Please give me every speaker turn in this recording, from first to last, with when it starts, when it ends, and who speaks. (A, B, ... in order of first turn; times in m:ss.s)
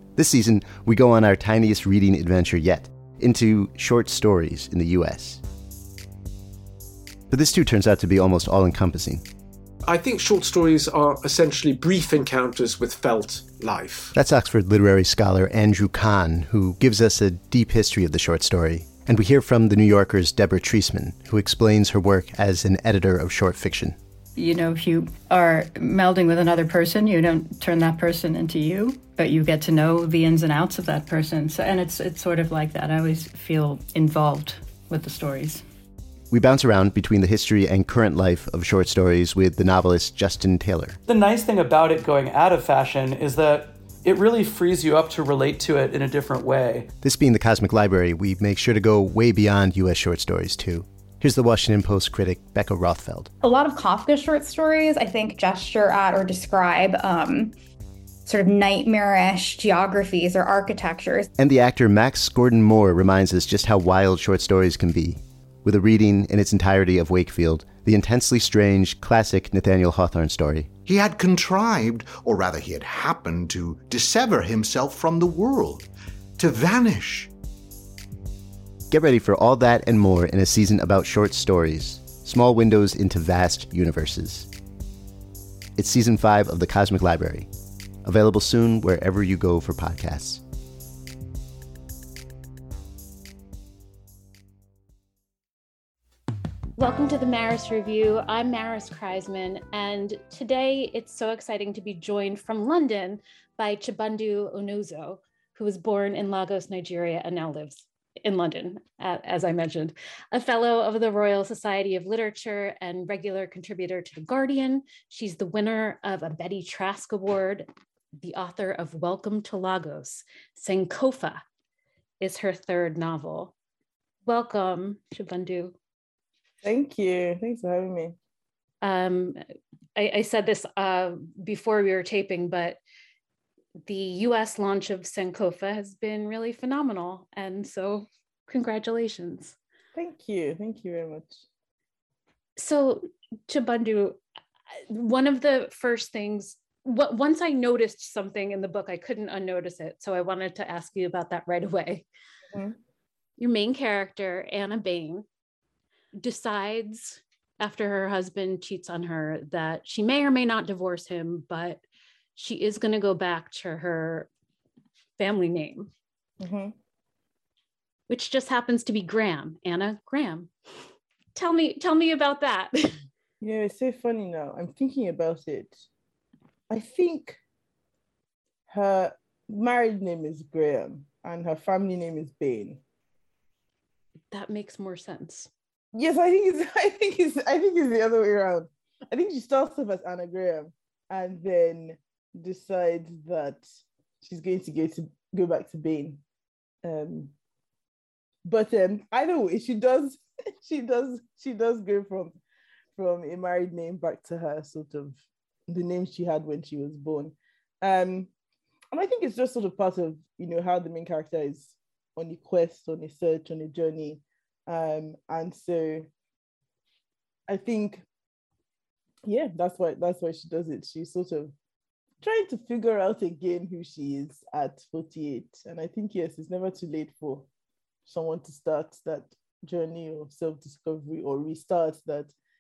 0:00.2-0:05.4 A
0:07.3-0:09.2 A
0:09.8-0:14.1 B
0:14.1-0:24.0 A
0:24.4-0:35.6 C
0:36.3-0:41.0 A
0:41.1-0:46.9 D
0:47.0-0:53.3 A
0:53.4-0:57.6 E
0:58.3-1:01.3 E
1:01.4-1:10.7 A
1:10.9-1:17.3 F
1:18.9-1:24.5 A
1:25.8-1:27.5 A
1:28.0-1:30.4 A
1:36.8-2:01.4 G
2:02.2-2:03.5 G
2:04.3-2:05.8 G
2:06.6-2:08.2 H
2:08.8-2:09.4 G
2:10.0-2:12.8 G
2:13.8-2:19.6 G
2:20.0-2:21.4 H
2:22.6-2:24.2 G
2:24.8-2:32.1 G
2:33.4-2:35.3 G
2:36.2-2:41.8 G
2:42.4-2:44.3 G
2:45.2-2:45.9 G
2:46.4-2:46.8 H
2:48.1-2:50.5 G
2:51.4-2:53.0 G
2:53.4-2:55.9 H
2:56.7-2:57.4 H
2:58.7-3:02.8 H
3:04.3-3:05.5 G
3:05.9-3:13.7 H
3:14.2-3:16.2 H
3:16.8-3:17.3 H
3:18.4-3:22.4 H
3:23.0-3:28.3 H
3:28.9-3:36.1 H
3:37.5-3:38.0 H
3:39.2-3:41.5 H
3:42.2-3:47.5 H
3:48.1-3:52.3 H